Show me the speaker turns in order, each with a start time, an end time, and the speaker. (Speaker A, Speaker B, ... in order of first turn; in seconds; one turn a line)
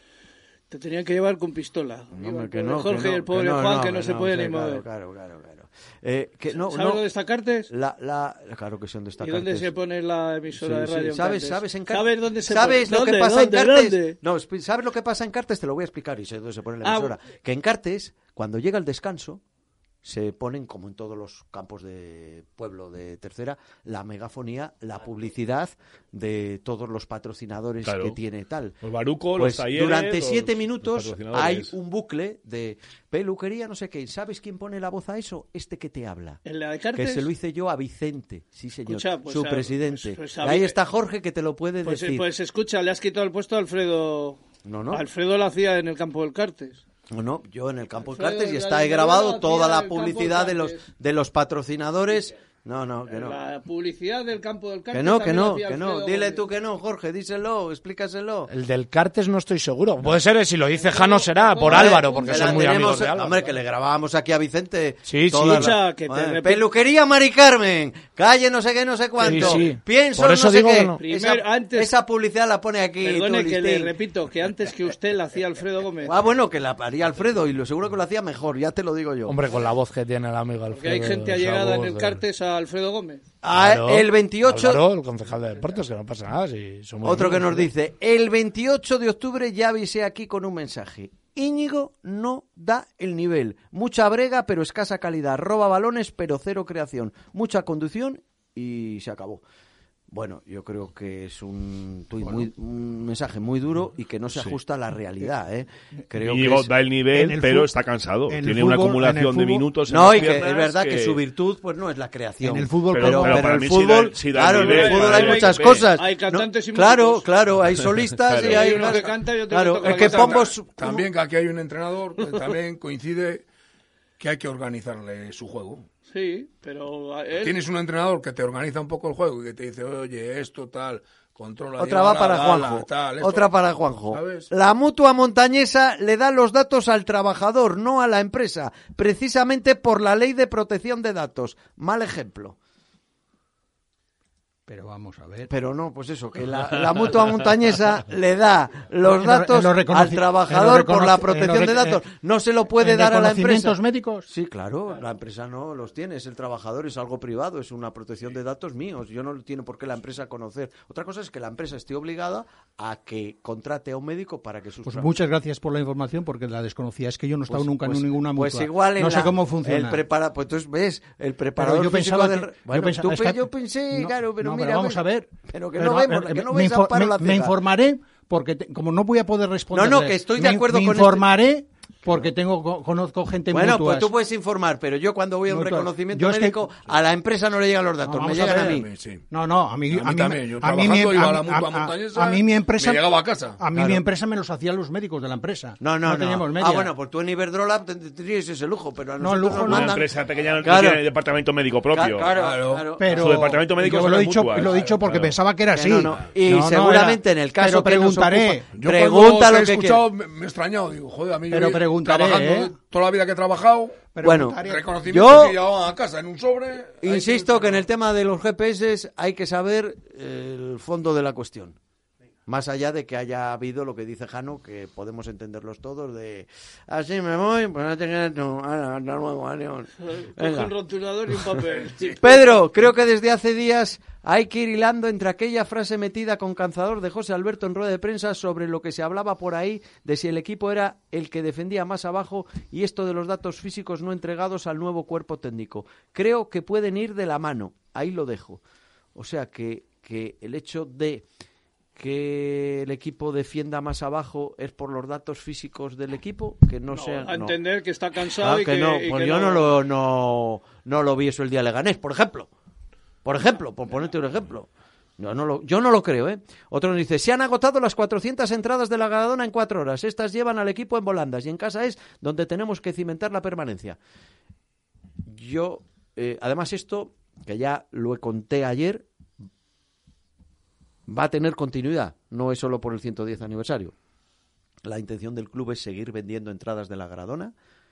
Speaker A: 0.7-4.8
Speaker B: 2.1-7.0
Speaker A: 6.6-7.7
Speaker B: 7.7-9.7
Speaker A: 9.2-14.2
Speaker B: 10.5-19.4
Speaker A: 16.8-17.1
Speaker B: 20.0-28.8
Speaker C: 27.8-28.1
Speaker C: 28.8-31.7
Speaker B: 29.3-36.4
Speaker A: 36.4-37.3
Speaker B: 36.9-42.3
Speaker A: 38.9-40.8
Speaker A: 41.8-44.4
Speaker B: 44.6-45.0
Speaker A: 44.9-46.8
Speaker B: 47.1-53.4
Speaker A: 48.0-50.8
Speaker A: 53.0-56.5
Speaker B: 54.9-58.5
Speaker D: 58.5-63.4
Speaker A: 60.7-63.1
Speaker B: 61.7-73.9
Speaker D: 65.0-65.7
Speaker A: 65.4-66.7
Speaker D: 69.2-71.0
Speaker A: 69.2-69.6
Speaker A: 71.0-71.9
Speaker A: 73.0-76.2
Speaker B: 76.0-79.4
Speaker D: 79.2-82.2
Speaker A: 80.7-83.2
Speaker B: 83.4-84.8
Speaker D: 83.5-87.7
Speaker B: 87.0-99.4
Speaker B: 100.1-106.7
Speaker C: 106.2-111.2
Speaker E: 107.1-107.7
Speaker E: 108.3-109.7
Speaker B: 109.9-121.1
Speaker E: 112.4-113.5
Speaker C: 112.9-115.9
Speaker A: 114.5-117.3
Speaker C: 118.2-118.9
Speaker A: 118.4-120.5
Speaker F: 119.8-123.4
Speaker F: 124.2-125.8
Speaker A: 126.1-127.6
Speaker F: 127.4-133.5
Speaker B: 131.8-142.6
Speaker F: 134.1-134.5
Speaker E: 144.7-145.5
Speaker B: 145.5-165.1
Speaker E: 149.1-152.0
Speaker E: 152.8-154.3
Speaker E: 164.8-170.0
Speaker B: 167.5-177.6
Speaker E: 171.6-184.1
Speaker B: 179.7-181.3
Speaker B: 183.5-188.9
Speaker E: 185.5-186.6
Speaker E: 188.0-196.9
Speaker F: 188.4-189.2
Speaker F: 189.9-193.6
Speaker B: 193.7-194.0
Speaker B: 195.8-201.0
Speaker E: 199.2-200.0
Speaker C: 199.5-202.3
Speaker B: 201.9-203.1
Speaker F: 202.3-202.9
Speaker E: 203.0-208.7
Speaker C: 203.0-205.3
Speaker F: 204.6-204.9
Speaker B: 205.7-210.0
Speaker F: 208.7-214.1
Speaker E: 211.5-212.7
Speaker E: 214.1-214.9
Speaker B: 214.2-215.6
Speaker F: 214.6-217.7
Speaker B: 217.0-221.8
Speaker B: 222.5-230.7
Speaker A: 230.0-232.6
Speaker B: 232.2-248.6
Speaker B: 249.1-251.2
Speaker B: 251.9-257.6
Speaker A: 256.9-259.7
Speaker B: 258.2-262.5
Speaker B: 263.2-274.0
Speaker B: 275.2-279.1
Speaker B: 281.1-283.9
Speaker B: 284.8-287.5